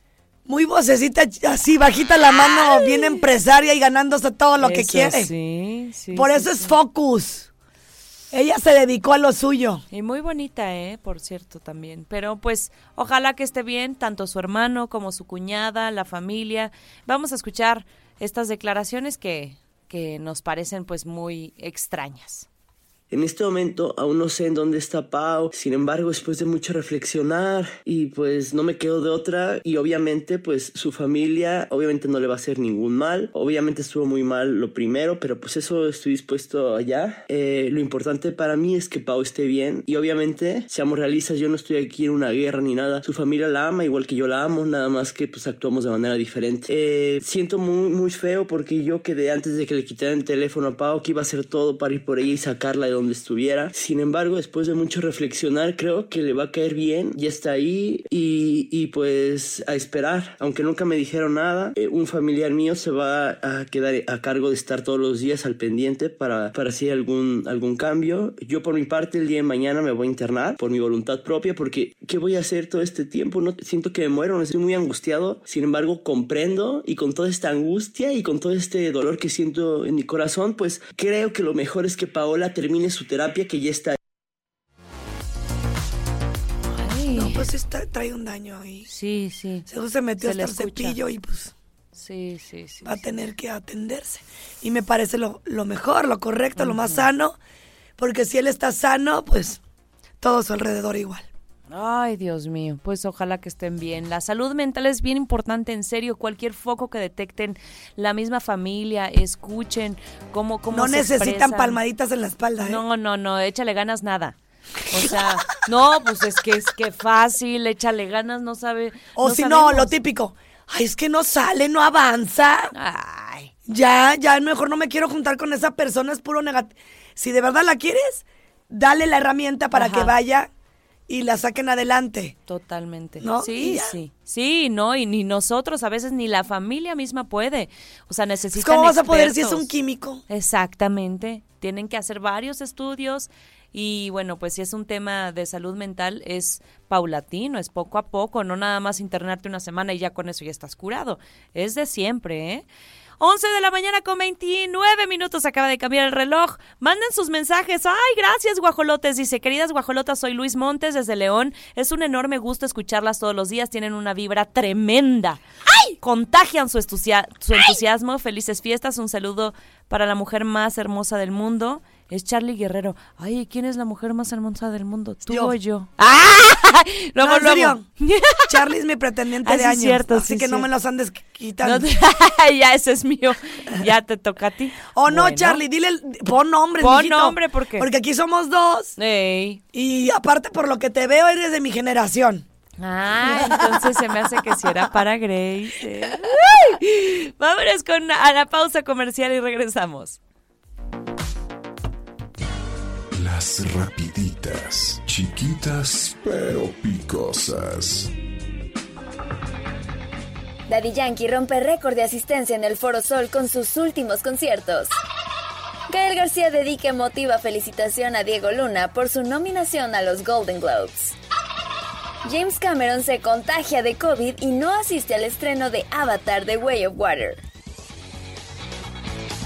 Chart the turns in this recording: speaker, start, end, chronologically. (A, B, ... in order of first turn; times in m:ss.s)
0:00.5-0:05.3 A
0:02.3-0:03.2 B
0:04.6-0:06.8 B
0:06.1-0:07.5 A
0:08.3-0:09.8 A
0:09.9-0:22.5 B
0:23.1-1:24.0 C
1:26.7-1:27.5 B
1:27.1-1:28.9 A
1:28.9-1:29.7 B
1:29.7-1:31.5 A
1:30.2-1:31.0 B
1:31.9-1:33.2 B
1:32.8-1:37.4 A
1:36.6-1:37.0 B
1:38.0-1:39.6 A
1:40.2-1:41.3 A
1:41.7-1:51.8 B
1:50.7-1:52.8 A
1:52.6-1:54.4 B
1:54.9-1:59.9 B
1:59.2-2:02.7 A
2:02.7-2:03.5 B
2:03.7-2:10.5 A
2:09.7-2:10.2 B
2:11.1-2:12.4 A
2:12.5-2:19.7 B
2:13.2-2:14.0 A
2:18.6-2:20.2 A
2:20.3-2:32.6 B
2:33.2-2:45.4 B
2:46.0-2:58.6 B
2:55.3-2:55.5 A
2:57.2-2:57.9 A
2:58.5-3:01.9 A
2:59.4-3:00.7 B
3:01.6-3:05.6 B
3:04.9-3:09.0 A
3:06.8-3:07.9 B
3:09.0-3:09.6 B
3:09.7-3:12.5 A
3:12.8-3:20.2 B
3:13.2-3:14.8 A
3:23.1-3:28.1 D
3:30.7-3:35.0 E
3:35.9-3:41.2 E
3:42.2-3:47.4 E